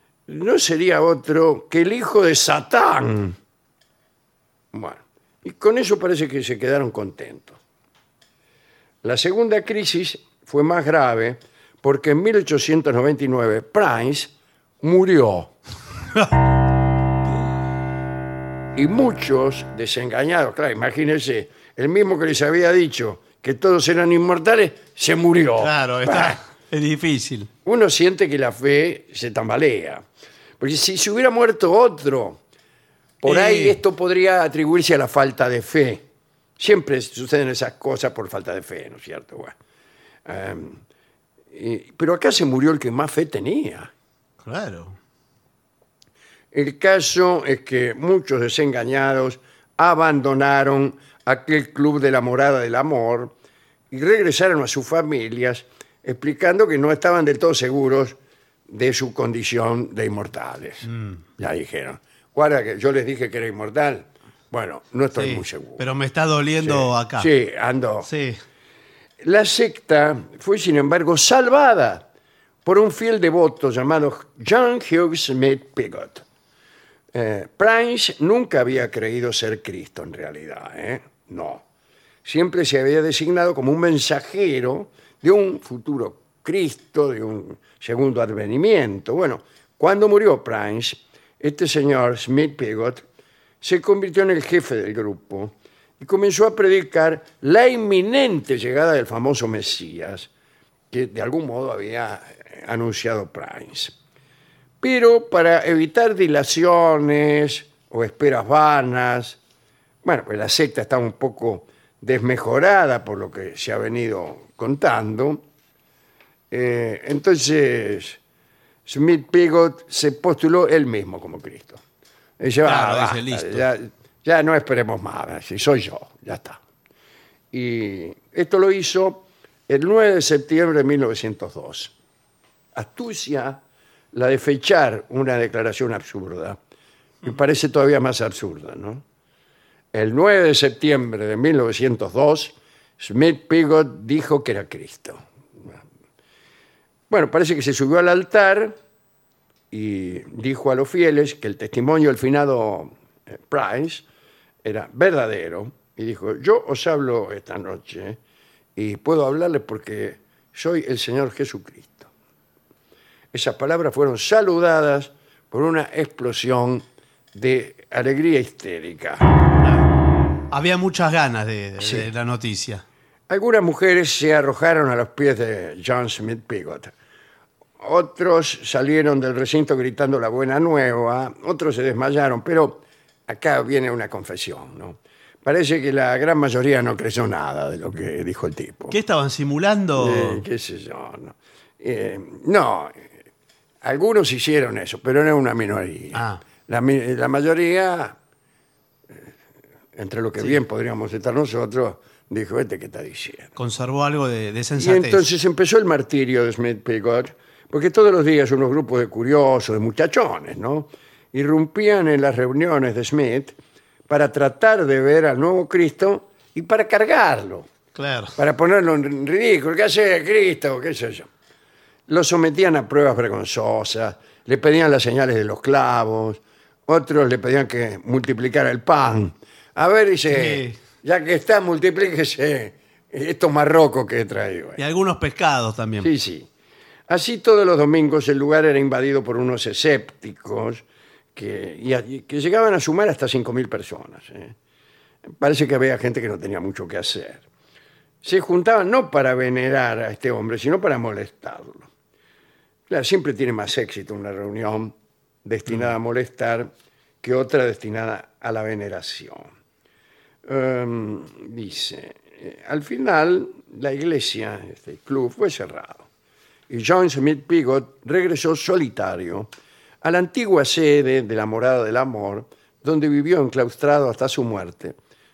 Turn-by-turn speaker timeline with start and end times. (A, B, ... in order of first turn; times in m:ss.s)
0:00.3-0:03.4 A
0:04.7-0:07.6 A
0:09.0-0:15.5 A
0:18.7-0:26.4 A
0:25.6-0:27.5 B
0:27.6-0:30.0 A
0:30.6-0:32.4 A
0:33.2-0:36.0 A
0:33.2-0:33.8 B
0:36.6-0:39.6 A
0:40.3-0:40.8 A
0:41.5-0:43.9 A
0:44.4-0:45.0 B
0:46.5-0:53.3 A
0:53.9-0:58.2 A
0:58.7-1:05.8 A
1:00.8-1:01.2 B
1:05.1-1:07.3 B
1:06.6-1:08.1 A
1:08.0-1:08.4 B
1:09.2-1:12.1 A
1:12.6-1:16.2 A
1:17.1-1:21.6 A
1:22.2-1:33.0 A
1:33.6-1:40.3 A
1:40.9-1:43.9 A
1:44.8-1:49.4 A
1:50.0-1:55.4 A
1:56.5-1:58.2 A
1:58.9-2:01.8 A
2:02.4-2:06.6 A
2:02.6-2:03.7 B
2:07.5-2:11.9 A
2:12.8-2:13.6 A
2:14.1-2:16.6 A
2:17.2-2:19.0 A
2:19.9-2:25.8 A
2:27.1-2:28.8 A
2:29.7-2:34.0 A
2:34.6-2:38.2 A
2:38.8-2:42.1 A
2:43.3-2:49.3 A
2:49.6-2:49.9 B
2:50.5-2:52.8 B
2:51.8-2:52.1 A
2:53.3-2:56.9 A
2:57.8-3:09.0 A
3:08.9-3:10.4 B
3:10.0-3:13.0 A
3:13.8-3:18.2 A
3:16.1-3:16.4 B
3:20.0-3:23.5 A
3:23.6-3:25.3 B
3:24.8-3:33.6 A
3:34.1-3:37.7 A
3:38.0-3:38.3 B
3:38.4-3:41.3 A
3:42.1-3:54.8 A
3:50.3-3:50.8 B
3:54.8-3:56.1 B
3:56.0-3:56.5 A
3:57.1-4:00.8 A
4:01.4-4:04.6 A
4:05.3-4:07.4 A
4:08.2-4:11.9 A
4:12.9-4:16.7 A
4:17.2-4:19.5 A
4:20.5-4:26.1 A
4:26.7-4:29.5 A
4:30.0-4:35.0 A